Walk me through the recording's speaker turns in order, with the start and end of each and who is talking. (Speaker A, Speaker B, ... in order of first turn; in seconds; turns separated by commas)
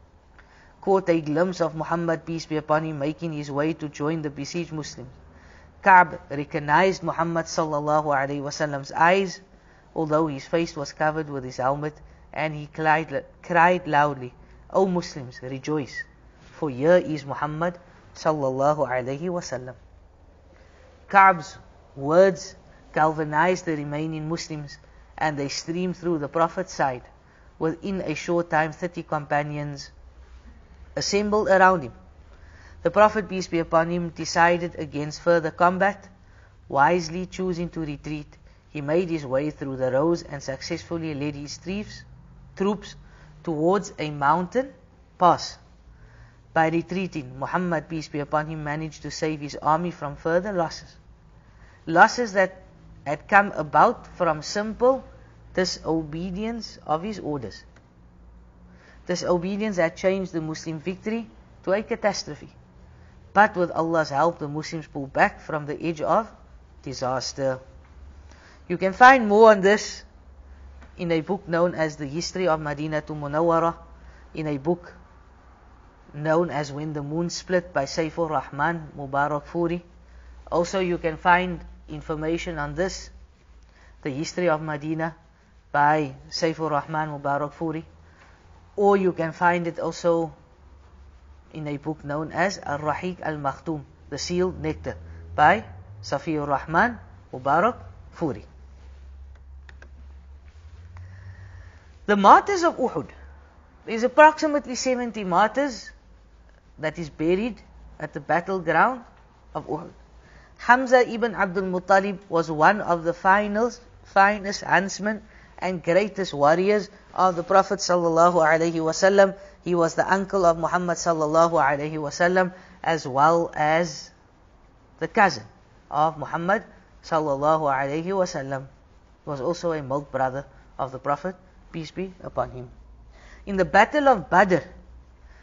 Speaker A: 0.8-5.1, Speaker A: 5.8-9.4, Speaker A: 9.9-19.8, Speaker A: 21.1-29.9, Speaker A: 30.9-31.9, Speaker A: 32.8-36.1, Speaker A: 36.7-45.6, Speaker A: 46.5-51.0, Speaker A: 51.9-57.6, Speaker A: 59.0-62.5, Speaker A: 63.3-66.3, Speaker A: 66.8-67.6, Speaker A: 68.7-70.0, Speaker A: 71.0-73.8, Speaker A: 74.3-75.0, Speaker A: 76.1-79.8, Speaker A: 80.5-83.1, Speaker A: 84.0-85.1, Speaker A: 85.7-87.9, Speaker A: 88.8-90.3, Speaker A: 91.5-98.5, Speaker A: 102.1-103.1, Speaker A: 103.8-105.9, Speaker A: 106.8-109.9, Speaker A: 110.6-124.1, Speaker A: 125.0-128.7, Speaker A: 129.2-132.7, Speaker A: 133.4-134.7